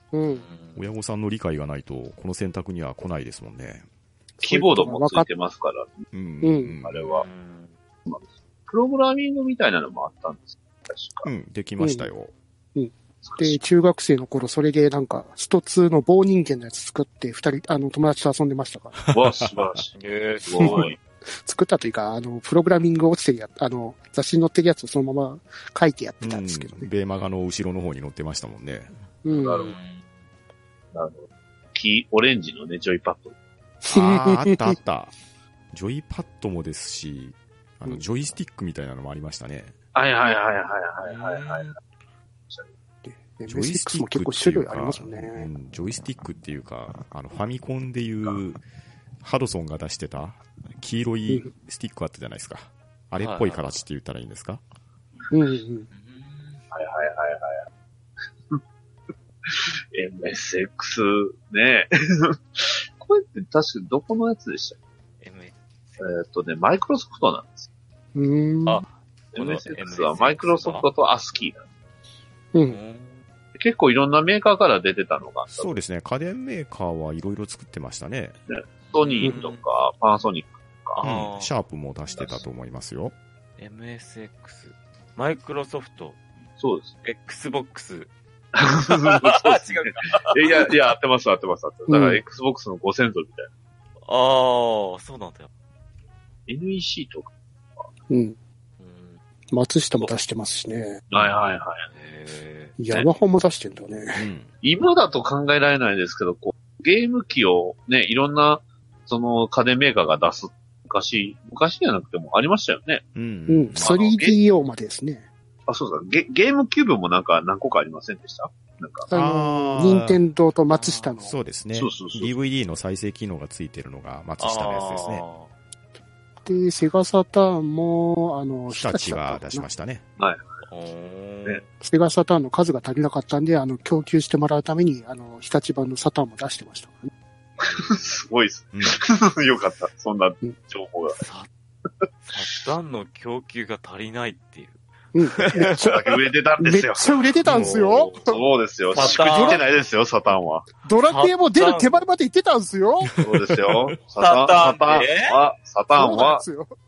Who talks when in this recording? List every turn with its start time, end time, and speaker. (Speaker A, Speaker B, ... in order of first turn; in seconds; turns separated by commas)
Speaker A: 0.1-0.5, Speaker B: 0.3-0.9, Speaker C: 0.8-3.9, Speaker A: 4.4-5.3, Speaker D: 4.4-6.1, Speaker C: 6.1-7.1, Speaker A: 6.4-6.8, Speaker D: 6.8-7.3, Speaker B: 7.1-7.7, Speaker D: 8.1-11.3, Speaker C: 11.2-12.3, Speaker A: 11.8-12.1, Speaker A: 12.8-19.0, Speaker D: 13.2-13.6, Speaker C: 19.1-19.5, Speaker D: 19.1-19.9, Speaker B: 19.9-21.0, Speaker D: 20.4-21.0, Speaker A: 21.4-26.9, Speaker C: 26.2-28.9, Speaker A: 29.2-29.7, Speaker D: 29.3-29.8, Speaker B: 29.6-30.1, Speaker D: 30.9-33.3, Speaker A: 33.8-34.8, Speaker C: 33.9-35.1, Speaker C: 35.7-39.7, Speaker D: 40.0-41.7, Speaker B: 41.0-41.8, Speaker A: 43.0-45.5, Speaker C: 43.5-48.6, Speaker C: 49.2-54.6, Speaker B: 53.2-53.8, Speaker A: 55.3-55.9, Speaker B: 55.9-56.6, Speaker D: 56.7-57.6, Speaker D: 59.5-64.8, Speaker B: 65.2-66.0, Speaker D: 66.0-67.7, Speaker A: 68.2-68.8, Speaker B: 68.7-70.9, Speaker D: 69.3-71.6, Speaker B: 72.7-73.2, Speaker D: 73.6-75.8, Speaker C: 75.5-78.4, Speaker D: 78.5-81.0, Speaker B: 78.9-79.6, Speaker B: 81.0-81.5, Speaker C: 81.0-83.2, Speaker B: 83.6-86.2, Speaker D: 86.6-86.9, Speaker B: 87.0-88.1, Speaker D: 88.5-93.5, Speaker B: 88.9-90.7, Speaker A: 91.9-92.2, Speaker B: 94.0-95.5, Speaker D: 96.5-97.3, Speaker A: 98.1-98.4, Speaker B: 98.8-99.2, Speaker A: 99.5-101.0, Speaker D: 101.1-101.9, Speaker B: 101.9-102.8, Speaker A: 102.8-104.3, Speaker C: 104.2-104.5, Speaker D: 104.6-113.0, Speaker C: 113.2-113.9, Speaker A: 113.5-115.2, Speaker D: 113.8-114.4, Speaker D: 115.7-119.1, Speaker A: 119.1-121.3, Speaker C: 119.1-120.2, Speaker B: 120.7-121.2, Speaker C: 121.2-125.2, Speaker D: 121.7-122.3, Speaker B: 124.4-125.5, Speaker A: 126.4-129.7, Speaker C: 128.7-130.0, Speaker D: 130.2-130.4, Speaker B: 130.7-131.7, Speaker A: 131.8-137.1, Speaker B: 137.6-138.2, Speaker D: 137.7-141.2, Speaker C: 138.7-139.0, Speaker B: 141.1-141.5, Speaker B: 142.2-145.8, Speaker A: 145.1-146.0, Speaker D: 145.6-147.7, Speaker A: 146.6-148.4, Speaker C: 147.4-147.9, Speaker B: 147.5-148.2, Speaker D: 148.2-150.7, Speaker B: 148.9-149.6, Speaker A: 149.0-149.6, Speaker A: 150.8-153.1, Speaker B: 151.1-152.0, Speaker C: 153.2-153.6, Speaker D: 153.2-156.4, Speaker B: 154.2-155.3, Speaker A: 155.9-156.7